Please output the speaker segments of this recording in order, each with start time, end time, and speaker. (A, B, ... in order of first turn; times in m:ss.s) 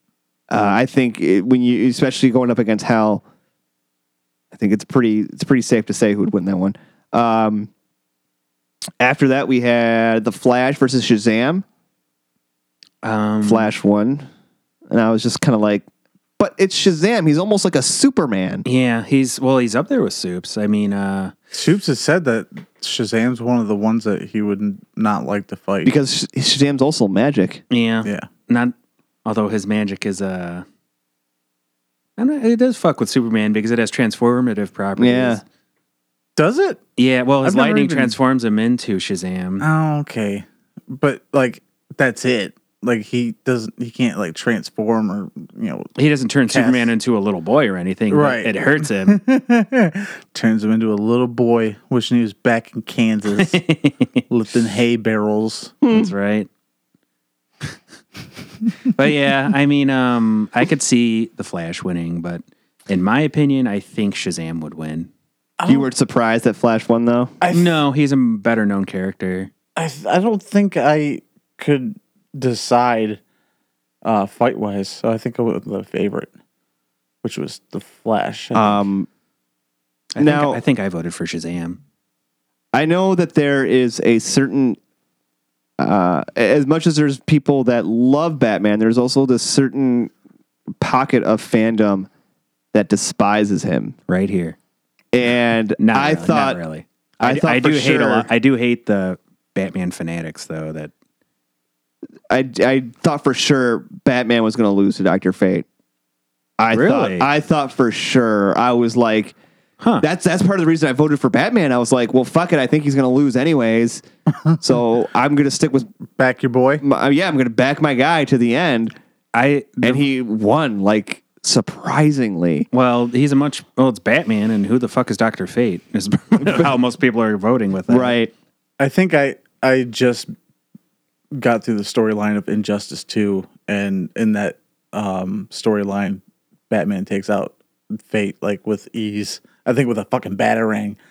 0:00.5-0:03.2 A
0:04.5-0:07.7 A
0:09.0-0:11.6 A
0:13.0-0:13.7 B
0:13.4-0:14.2 A
0:14.9-0:15.8 A
0:16.4-0:18.6 A
0:18.6-0:21.3 B
0:21.5-0:25.9 C
0:25.8-0:27.6 A
0:27.7-0:30.6 B
0:32.2-0:35.4 B
0:35.0-0:35.4 A
0:36.4-0:36.8 C
0:37.0-0:39.7 B
0:37.4-0:38.2 C
0:39.6-0:45.9 C
0:46.0-0:49.2 B
0:46.5-0:46.9 C
0:48.1-0:53.6 C
0:53.4-0:54.2 B
0:54.3-0:55.8 C
0:55.8-0:56.1 A
0:55.9-0:56.5 B
0:58.9-1:05.1 B
1:05.6-1:05.9 C
1:05.6-1:07.3 A
1:07.4-1:07.8 C
1:07.5-1:09.5 B
1:09.8-1:13.2 C
1:14.0-1:16.3 C
1:17.2-1:18.9 C
1:18.5-1:19.1 A
1:20.1-1:21.8 B
1:20.2-1:20.6 A
1:22.7-1:24.8 A
1:25.8-1:30.1 A
1:30.8-1:32.1 A
1:32.7-1:33.9 A
1:34.1-1:34.6 B
1:35.1-1:36.6 A
1:35.8-1:40.9 B
1:37.2-1:38.3 A
1:42.3-1:45.6 A
1:46.6-1:49.3 A
1:46.7-1:47.3 B
1:50.0-1:54.0 A
1:54.6-1:55.9 A
1:56.2-1:56.8 C
1:56.8-1:58.9 A
1:59.3-2:00.0 B
1:59.8-2:02.7 A
2:02.7-2:08.2 B
2:06.4-2:06.7 A
2:07.9-2:08.3 A
2:08.8-2:10.3 C
2:11.3-2:21.0 C